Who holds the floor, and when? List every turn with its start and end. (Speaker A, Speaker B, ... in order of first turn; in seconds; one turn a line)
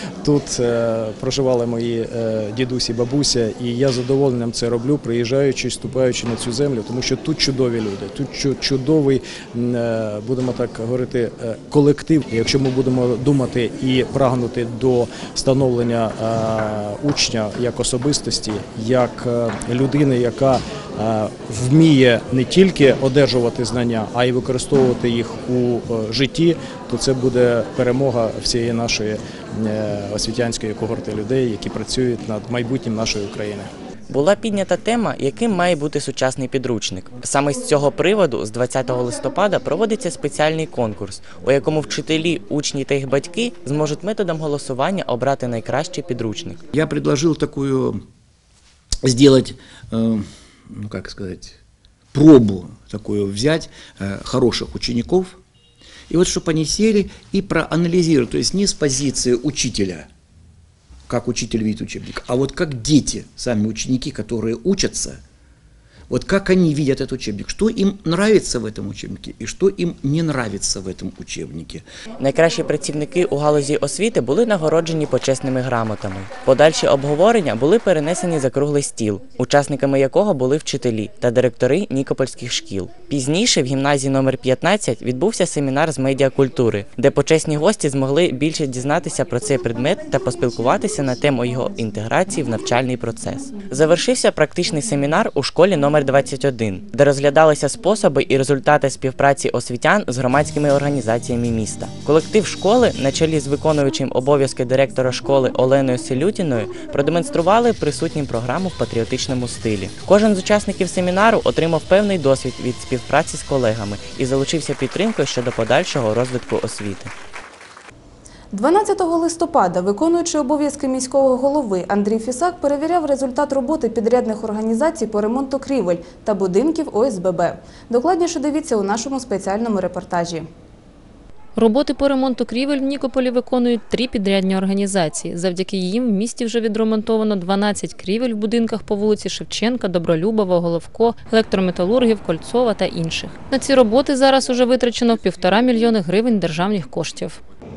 Speaker A: 0.2-33.7
Speaker B: 34.1-46.6
Speaker C: 46.7-48.0
Speaker C: 49.0-51.6
Speaker C: 52.1-55.4
Speaker C: 56.1-60.1
Speaker C: 61.1-65.2
Speaker C: 66.1-71.8
Speaker B: 72.2-117.1
Speaker D: 118.5-130.5
Speaker E: 131.6-147.4